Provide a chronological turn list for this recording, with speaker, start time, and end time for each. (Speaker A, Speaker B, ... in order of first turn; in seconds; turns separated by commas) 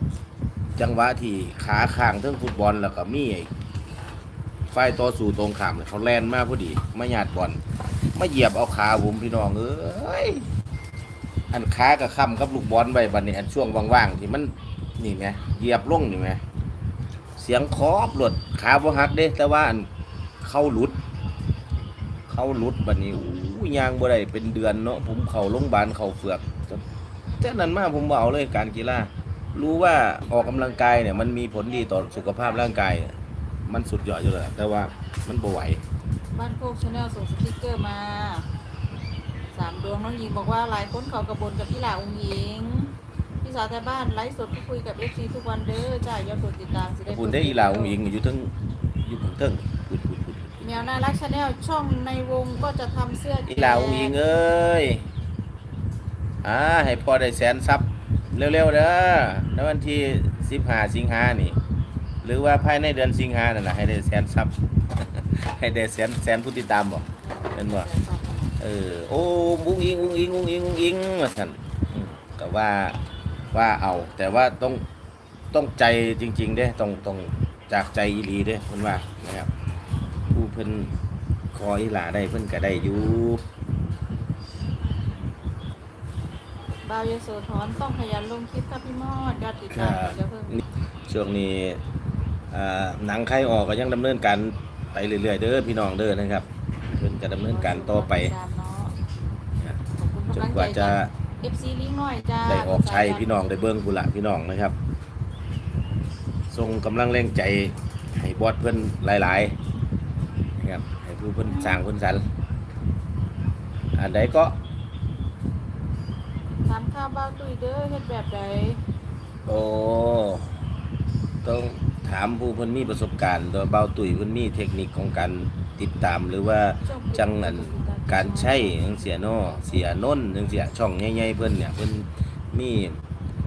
Speaker A: 0.8-3.5, Speaker A: 4.7-7.6, Speaker A: 8.1-10.5, Speaker A: 11.5-16.4, Speaker A: 17.4-19.9, Speaker A: 20.4-21.0, Speaker A: 22.3-26.8, Speaker A: 27.4-35.8, Speaker B: 30.3-32.7, Speaker B: 36.3-38.5, Speaker B: 39.5-48.0, Speaker A: 47.1-50.6, Speaker B: 50.6-54.2, Speaker A: 53.5-55.0, Speaker A: 56.4-61.6, Speaker A: 62.2-67.9, Speaker B: 67.2-68.6, Speaker A: 68.6-73.0, Speaker A: 73.5-74.8, Speaker A: 75.5-79.5, Speaker A: 80.3-80.9, Speaker A: 81.5-83.4, Speaker B: 86.8-90.6, Speaker A: 89.7-91.8, Speaker A: 92.5-98.3, Speaker B: 97.3-99.0, Speaker B: 99.9-103.3, Speaker A: 100.3-101.1, Speaker A: 102.4-104.7, Speaker A: 106.5-109.5, Speaker A: 110.6-112.2, Speaker B: 111.4-111.8, Speaker A: 113.9-114.6, Speaker B: 116.6-118.8, Speaker A: 119.5-120.6, Speaker A: 121.4-133.0, Speaker B: 126.8-129.6